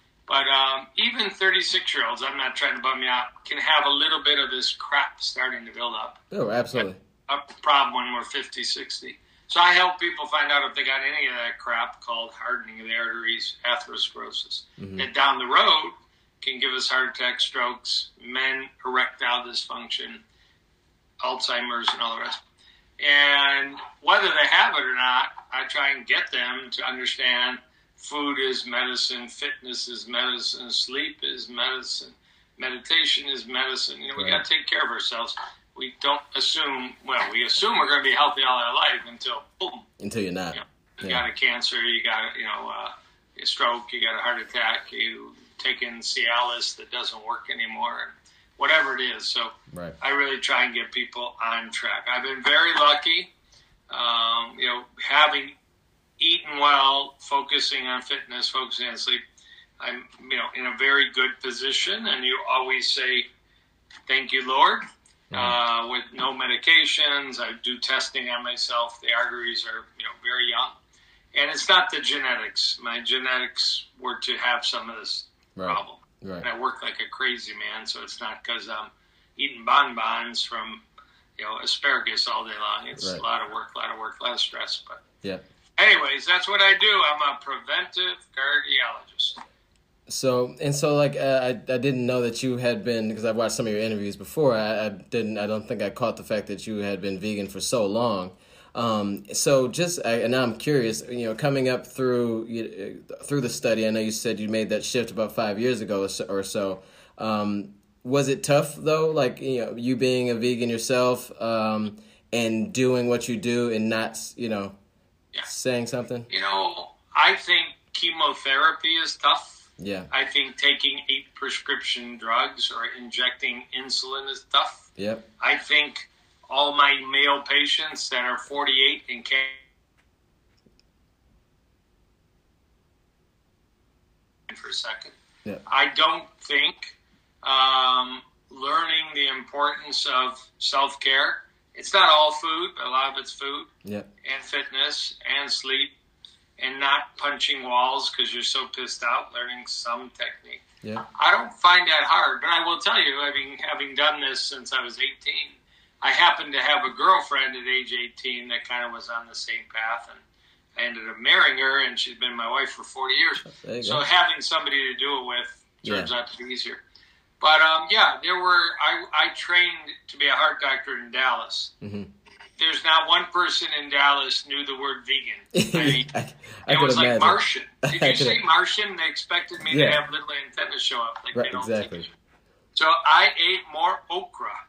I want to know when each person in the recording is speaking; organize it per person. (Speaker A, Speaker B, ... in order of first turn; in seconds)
Speaker A: 0.3-6.2, 6.7-20.2, 21.2-22.4, 23.0-39.8, 40.5-53.3, 53.9-55.5, 56.2-59.2, 59.8-63.3, 64.1-70.8, 71.3-80.8, 81.4-85.0, 85.8-89.4, 116.3-124.9, 125.4-129.6, 134.5-135.1, 135.7-143.7, 144.2-145.9, 146.6-150.6, 151.1-160.2, 160.8-166.8, 167.4-171.7, 172.6-176.1, 176.7-182.1, 182.7-184.5
Speaker B: 6.3-7.0, 14.8-15.1, 34.2-34.4, 40.0-41.2, 49.7-50.0, 65.3-65.6, 75.5-76.5, 83.0-83.2, 90.1-114.8, 115.5-116.3, 119.8-120.1, 125.0-125.2, 163.4-164.0, 165.8-166.1, 171.8-172.1, 175.5-178.4, 179.7-180.0, 181.3-182.1